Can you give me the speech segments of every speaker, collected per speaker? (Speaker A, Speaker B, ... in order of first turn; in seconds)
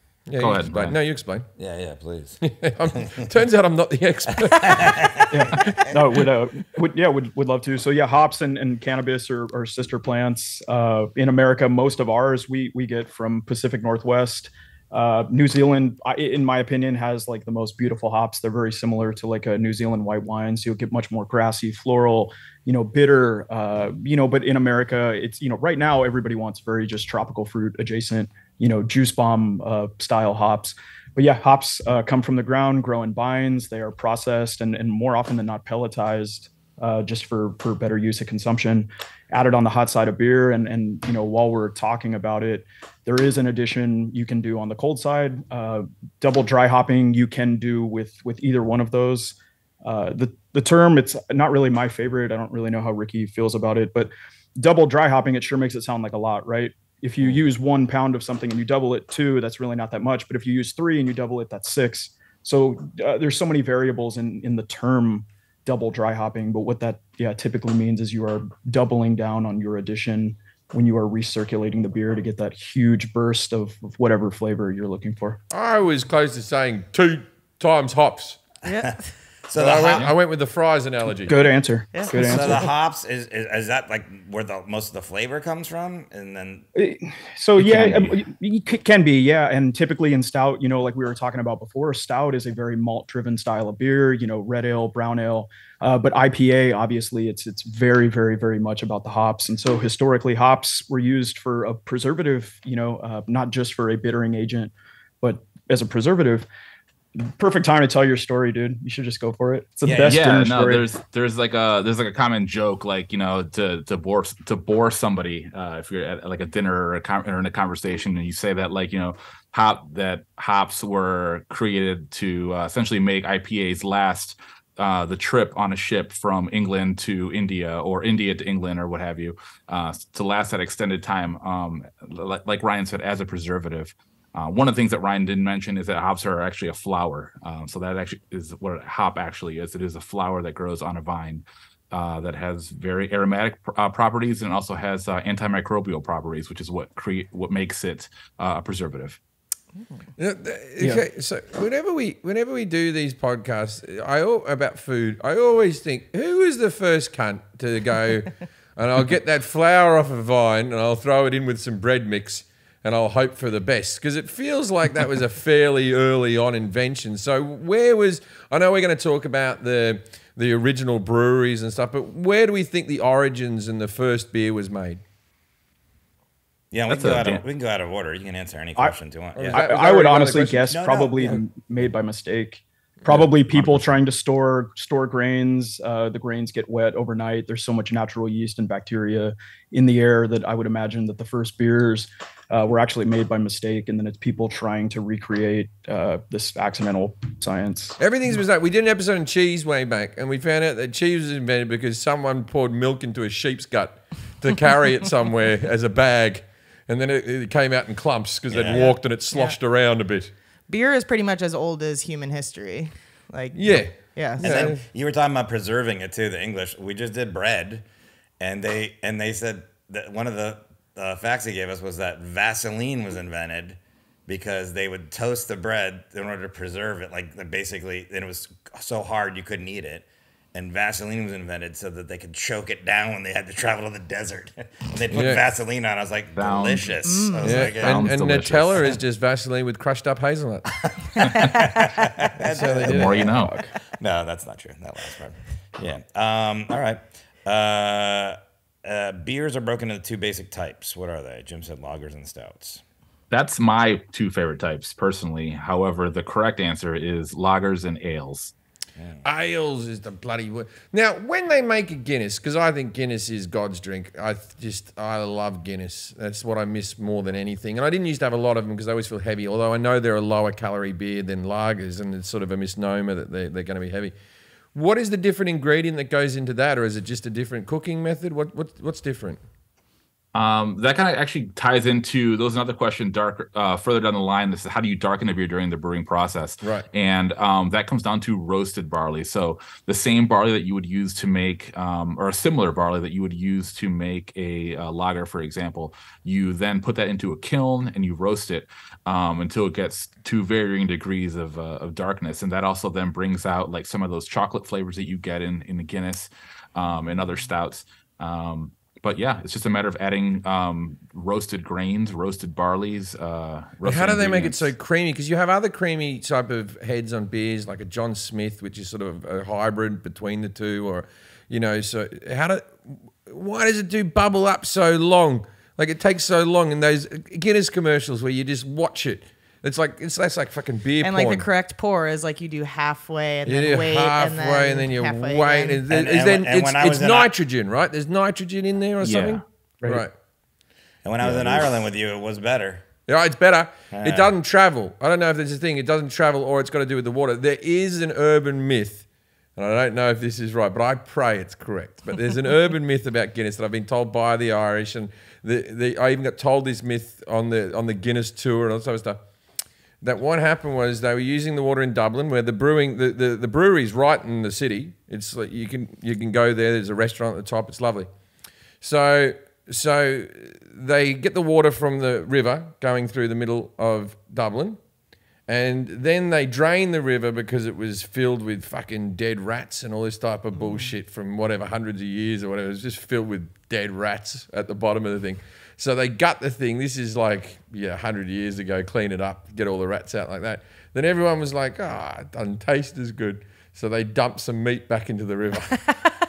Speaker A: 0.3-1.5, 2.4-5.2, 75.5-78.4, 79.5-81.3, 150.2-175.0, 179.3-180.8, 198.0-210.3, 213.5-214.8, 235.1-235.4, 237.4-240.7, 242.4-243.3, 259.2-274.1, 274.7-279.4, 313.8-331.4, 333.4-340.1, 343.1-349.0, 349.6-359.2, 360.0-368.1, 368.8-374.8, 375.5-396.0
Speaker B: 0.4-1.0, 87.6-88.1, 109.8-149.2, 176.9-177.4, 183.1-183.9, 236.4-238.9, 241.2-241.6, 242.8-243.5, 253.3-258.5, 280.3-314.7, 339.0-339.4, 341.2-341.7
Speaker C: 1.6-2.4, 2.9-3.2, 4.5-6.2, 78.6-80.1, 82.1-86.7, 176.7-179.7, 180.7-181.4, 208.5-208.9, 214.4-217.8, 218.4-238.1, 240.8-242.9, 243.9-252.8, 259.0-259.2, 335.9-337.3, 341.0-342.8, 343.9-344.3
Speaker D: 5.3-75.4, 81.3-82.7, 86.7-106.5, 107.2-110.8, 179.5-198.0, 242.6-243.7
Speaker E: 78.6-79.1, 81.9-82.4, 208.7-209.6, 210.7-214.8, 237.1-237.5, 331.0-335.8, 380.5-380.9